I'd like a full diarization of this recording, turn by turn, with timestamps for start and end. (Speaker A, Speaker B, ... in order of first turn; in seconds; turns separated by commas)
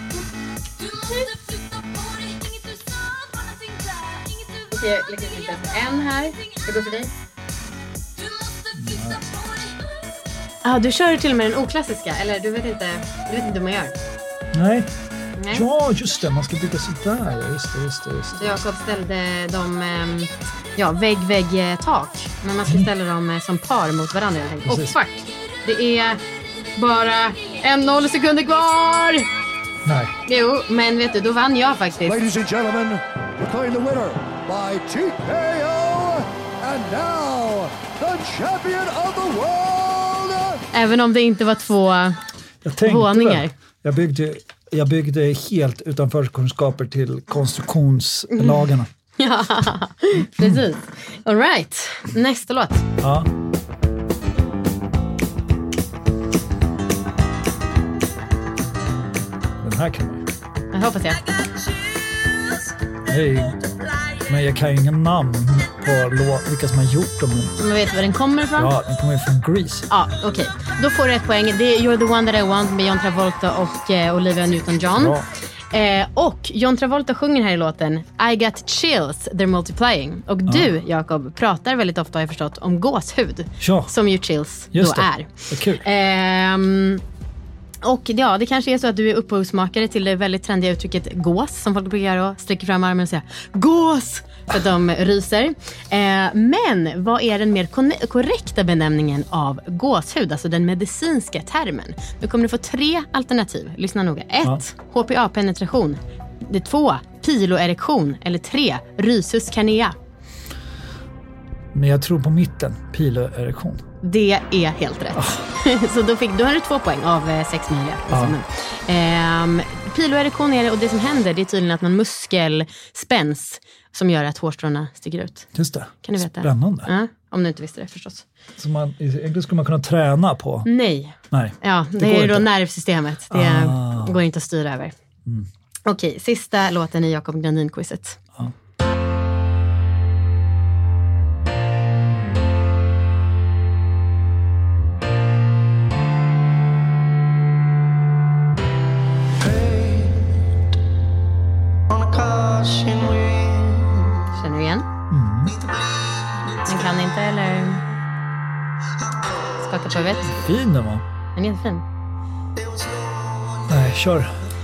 Speaker A: 0.8-4.7, Speaker B: 4.7-7.1, Speaker A: 8.2-9.8, Speaker C: 8.8-9.2, Speaker B: 10.6-14.0, Speaker C: 14.5-14.9, Speaker B: 15.4-15.6, Speaker C: 15.5-18.6, Speaker B: 18.4-26.2, Speaker C: 24.6-25.0, Speaker B: 26.8-29.3, Speaker C: 29.9-30.1, Speaker B: 30.3-32.2, Speaker D: 32.1-40.6, Speaker B: 40.7-42.2, Speaker C: 42.6-48.9, Speaker B: 42.9-43.5, Speaker B: 48.3-52.9, Speaker C: 53.0-53.3, Speaker C: 59.6-60.3, Speaker B: 60.7-61.3, Speaker C: 63.0-67.5, Speaker B: 67.6-68.7, Speaker C: 68.6-69.9, Speaker B: 69.9-75.2, Speaker C: 75.0-75.3, Speaker B: 75.7-87.0, Speaker C: 80.5-80.7, Speaker C: 83.6-83.9, Speaker C: 84.7-85.8, Speaker B: 87.8-110.0, Speaker C: 111.7-113.8, Speaker B: 114.0-125.5, Speaker C: 115.2-115.4, Speaker C: 118.1-118.4, Speaker C: 125.5-126.9, Speaker B: 126.0-128.2, Speaker C: 128.6-130.7, Speaker B: 130.7-134.9, Speaker C: 131.3-132.5, Speaker C: 133.3-134.2, Speaker B: 135.9-138.2, Speaker B: 154.3-154.9, Speaker C: 155.1-155.7, Speaker B: 156.5-157.9, Speaker B: 159.6-160.4, Speaker C: 160.3-161.1, Speaker B: 161.3-161.8, Speaker C: 163.7-164.4